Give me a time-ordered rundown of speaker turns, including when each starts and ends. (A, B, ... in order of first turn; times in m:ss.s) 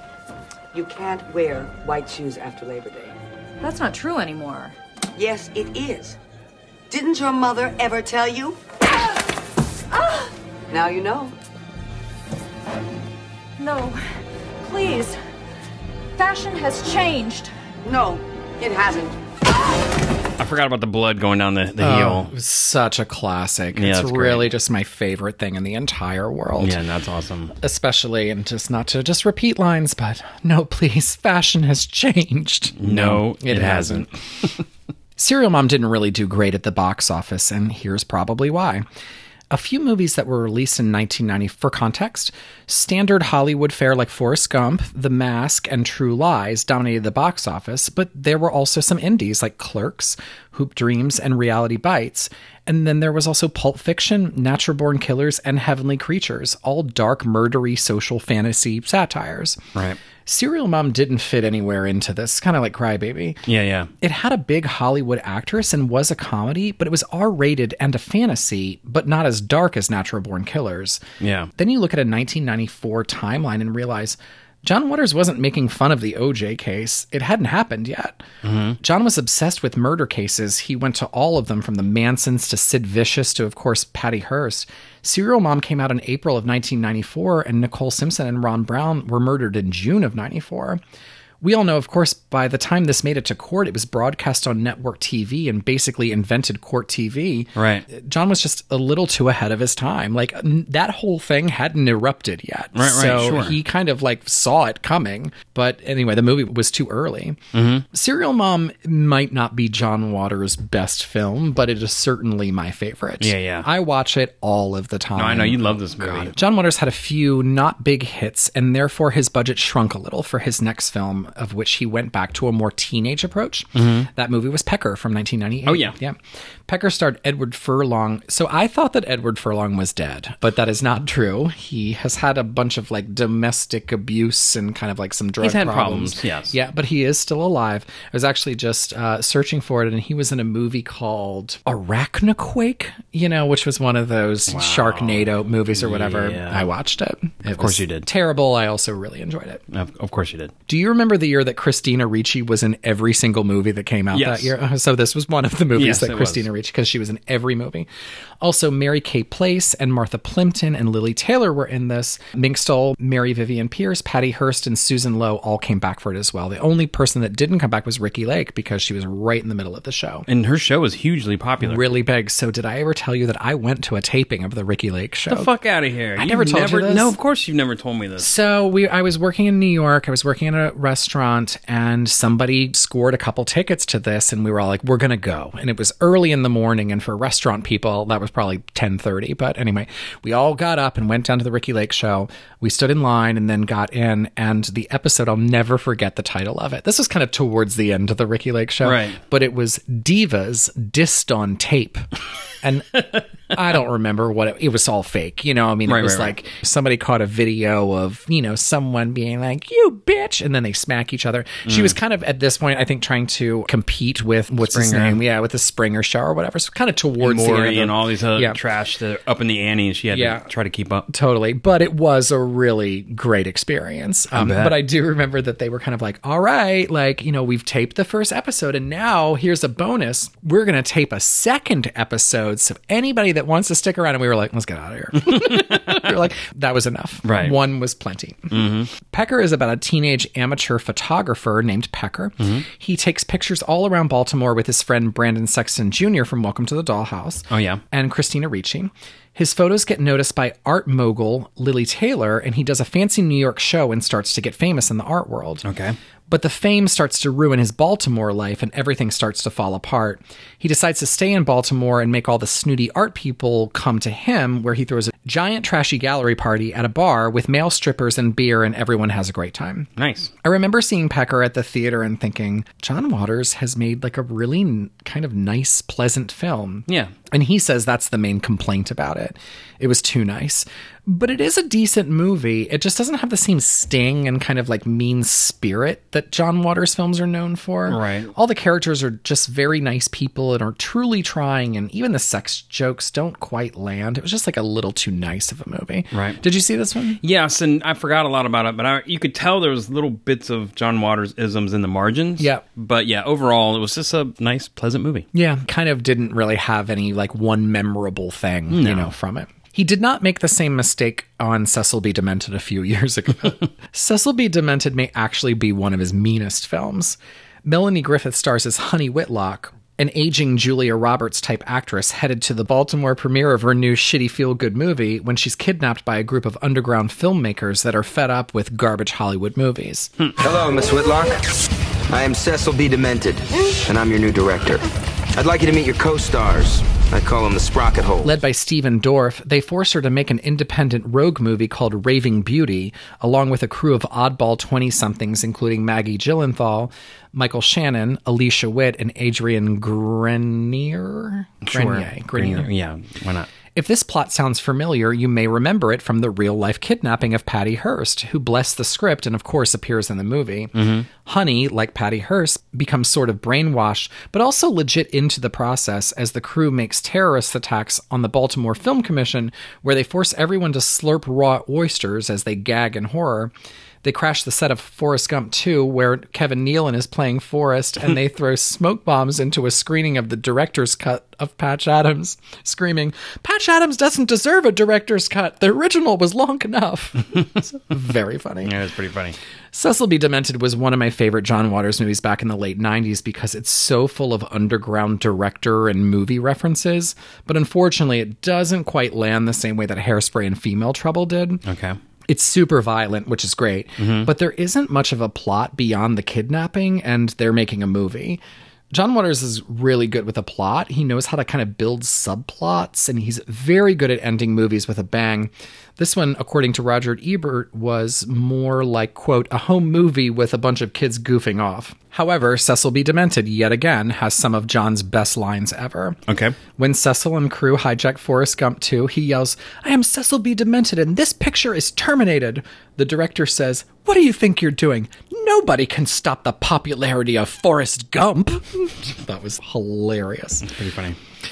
0:00.7-0:03.2 A
0:03.6-0:04.7 B
0:05.2-0:06.2 A
0:06.9-0:08.6 A
0:09.9-0:10.3 B
0:10.7-0:11.4 A
0:13.6-0:14.0 B
0:14.6-0:15.2 B
0:16.2-0:17.5 B
0:17.8-0:19.2 A
0:20.4-0:22.3 C
0:21.8-0:26.8 D
0:23.7-0:24.5 C
0:26.6-0:27.6 C
0:27.6-0:34.1 D
0:32.8-0:34.6 C
0:35.2-0:38.8 D
0:39.5-0:59.6 D
1:00.2-1:03.4 D
1:03.5-1:03.9 C
1:04.0-1:11.0 D
1:11.2-1:11.5 C
1:11.6-1:18.2 D
1:18.4-1:18.8 C
1:18.8-1:30.8 D
1:31.4-1:47.4 D
1:37.6-1:37.8 C
1:42.8-1:43.6 C
1:47.5-1:47.9 C
1:47.9-2:29.6 D
1:53.2-1:53.7 C
1:55.2-1:56.3 C
2:03.8-2:04.1 C
2:05.7-2:06.0 C
2:15.4-2:16.6 C
2:24.5-2:26.6 C
2:27.5-2:28.1 C
2:29.7-2:30.5 C
2:30.7-2:37.9 D
2:34.1-2:34.5 C
2:35.7-2:36.5 C
2:38.4-2:50.3 D
2:50.3-2:51.8 C
2:51.6-2:55.5 D
2:55.3-2:58.3 C
2:56.2-2:57.2 D
2:58.2-3:22.1 D
3:18.8-3:19.2 C
3:22.6-3:38.6 D
3:25.9-3:26.4 C
3:31.7-3:32.0 C
3:34.6-3:35.2 C
3:37.2-3:41.1 C
3:40.1-3:40.5 D
3:41.1-4:15.7 D
3:44.3-3:44.8 C
3:55.2-3:56.1 C
3:57.2-3:57.6 C
3:58.5-3:58.9 C
4:07.5-4:07.8 C
4:15.6-4:16.0 C
4:16.3-4:29.9 D
4:30.0-4:30.3 C
4:30.4-4:57.2 D
4:36.9-4:37.1 C
4:47.9-4:48.3 C
4:56.1-4:56.4 C
4:57.2-5:05.3 C
5:05.3-5:30.1 D
5:08.7-5:09.1 C
5:30.4-5:31.4 E
5:32.1-5:34.8 E
5:35.4-5:38.4 E
5:38.2-5:52.7 D
5:51.6-5:53.5 C
5:53.8-6:13.5 D
6:00.8-6:01.1 C
6:14.0-6:28.7 D
6:28.6-6:29.4 C
6:29.7-6:41.6 D
6:41.6-6:42.0 C
6:42.3-6:48.4 D
6:44.0-6:44.3 C
6:48.9-7:06.2 D
7:06.3-7:06.6 C
7:06.8-7:20.7 D
7:20.6-7:21.2 C